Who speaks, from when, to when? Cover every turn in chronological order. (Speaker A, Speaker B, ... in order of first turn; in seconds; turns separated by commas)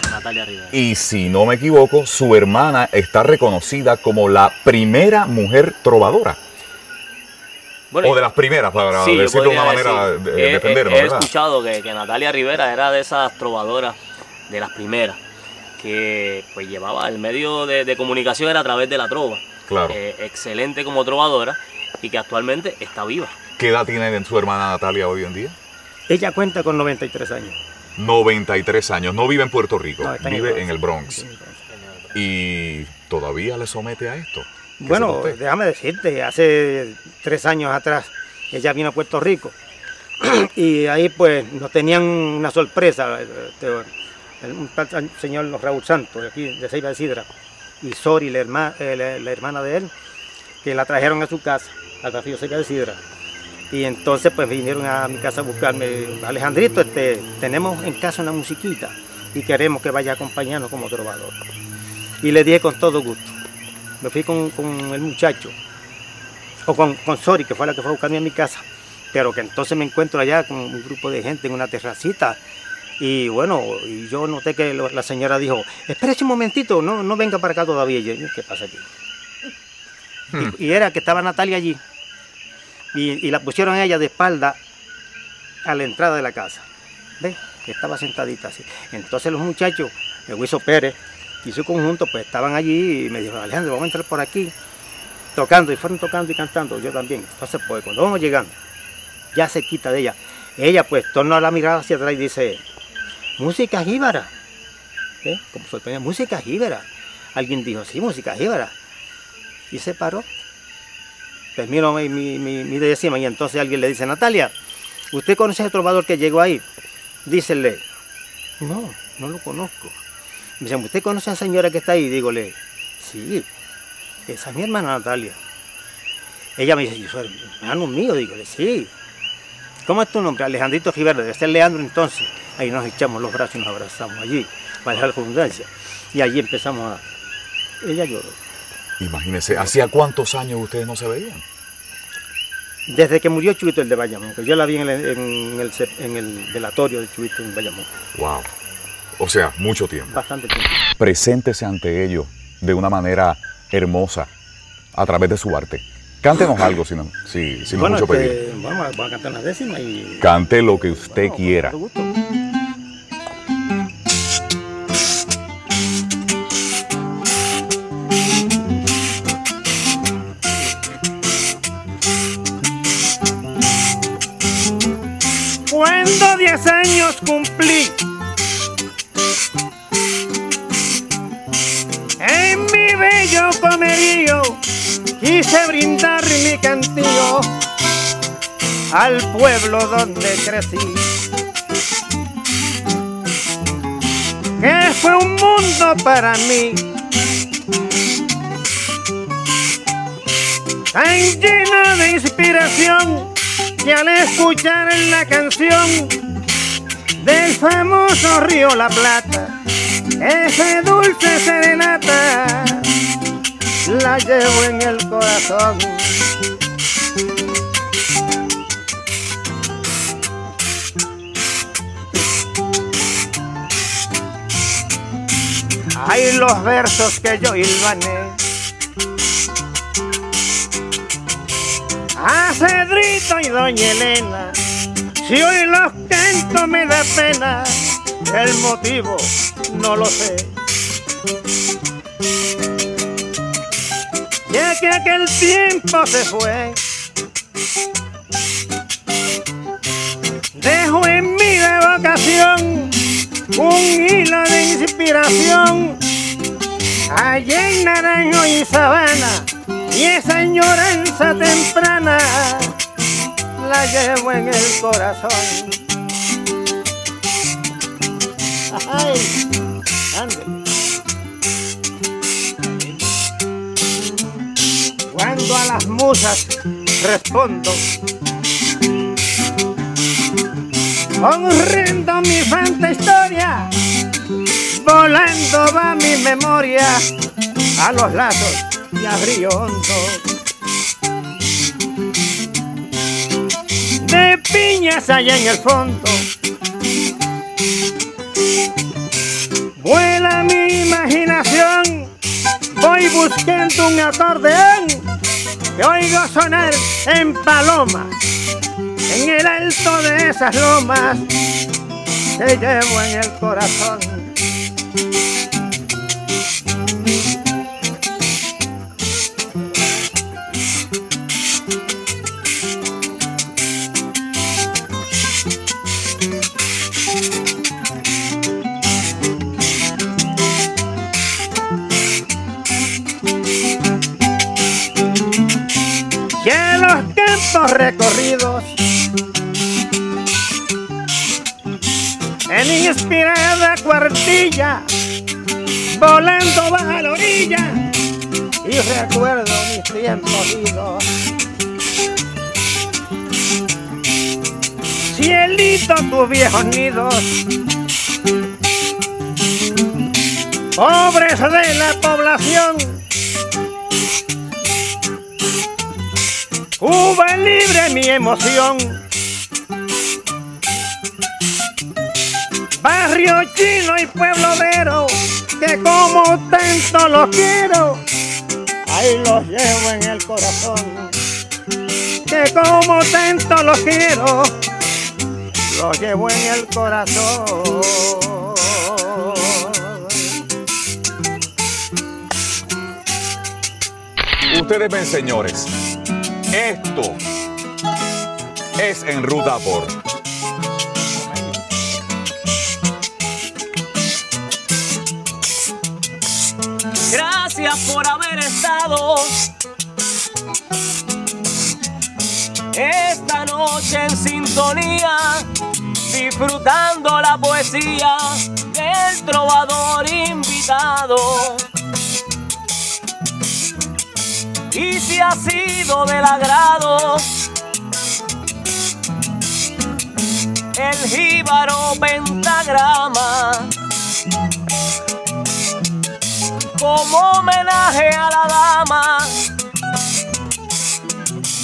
Speaker A: 0.1-0.7, Speaker B: 0.7-6.4, Speaker A: 7.9-8.3, Speaker B: 8.0-11.3, Speaker A: 8.9-14.0, Speaker A: 14.5-15.2, Speaker A: 15.8-23.3, Speaker B: 19.7-20.0, Speaker B: 23.6-25.6, Speaker C: 26.1-27.6, Speaker B: 27.9-31.2, Speaker C: 30.0-31.6, Speaker B: 32.1-35.4, Speaker C: 34.8-39.5, Speaker C: 40.2-43.9, Speaker C: 44.4-47.3, Speaker C: 47.8-49.9, Speaker C: 50.6-53.0, Speaker C: 53.7-61.4, Speaker C: 62.2-63.3, Speaker C: 64.0-65.5, Speaker C: 66.7-72.4, Speaker C: 73.0-78.8, Speaker C: 80.3-81.8, Speaker C: 82.9-84.6, Speaker C: 85.6-86.7, Speaker C: 87.2-94.5, Speaker C: 95.3-98.5, Speaker C: 99.3-102.6, Speaker C: 103.4-104.3, Speaker C: 105.2-108.7, Speaker C: 109.7-110.3, Speaker C: 111.5-114.5, Speaker C: 115.1-116.6, Speaker C: 117.2-117.8, Speaker C: 118.6-120.0, Speaker C: 120.6-123.5, Speaker C: 124.3-125.4, Speaker C: 126.6-128.9, Speaker C: 129.8-137.0, Speaker C: 137.8-138.4, Speaker B: 139.0-141.4, Speaker C: 142.9-147.9, Speaker B: 148.1-148.5, Speaker B: 149.2-150.1, Speaker C: 150.1-150.8, Speaker B: 151.0-154.3, Speaker B: 154.9-158.4, Speaker C: 157.8-160.3, Speaker B: 160.2-161.7, Speaker C: 161.0-162.1, Speaker C: 175.7-178.0, Speaker C: 182.2-184.6, Speaker C: 185.2-187.5, Speaker C: 188.9-191.1, Speaker C: 194.6-196.8, Speaker C: 200.9-206.2, Speaker C: 207.2-209.5, Speaker C: 210.2-212.9, Speaker C: 213.8-216.2, Speaker C: 225.9-228.4, Speaker C: 232.2-234.6, Speaker C: 235.2-240.5, Speaker C: 244.5-246.8, Speaker C: 250.5-253.0, Speaker C: 253.5-256.0, Speaker C: 257.1-262.8, Speaker C: 263.6-265.8, Speaker C: 268.7-269.4, Speaker C: 270.1-270.6, Speaker C: 275.1-277.8, Speaker C: 281.2-283.7, Speaker C: 284.7-287.1, Speaker C: 287.8-290.2, Speaker C: 294.0-296.2, Speaker C: 299.8-302.1, Speaker C: 302.7-305.1, Speaker C: 305.8-308.1, Speaker C: 309.1-311.3, Speaker C: 312.4-314.3, Speaker C: 336.4-338.8, Speaker C: 342.5-344.8, Speaker C: 345.9-347.9, Speaker C: 348.6-351.1, Speaker C: 355.1-357.4, Speaker C: 360.8-363.0, Speaker C: 366.8-369.0, Speaker C: 372.8-378.0, Speaker C: 378.9-381.1, Speaker C: 382.3-384.6, Speaker C: 385.7-390.2, Speaker B: 394.5-395.7, Speaker B: 396.5-397.2, Speaker B: 398.8-399.9, Speaker A: 407.1-409.4, Speaker A: 412.7-415.5, Speaker A: 416.1-421.7, Speaker A: 424.7-427.3, Speaker A: 430.8-433.7, Speaker A: 436.8-439.4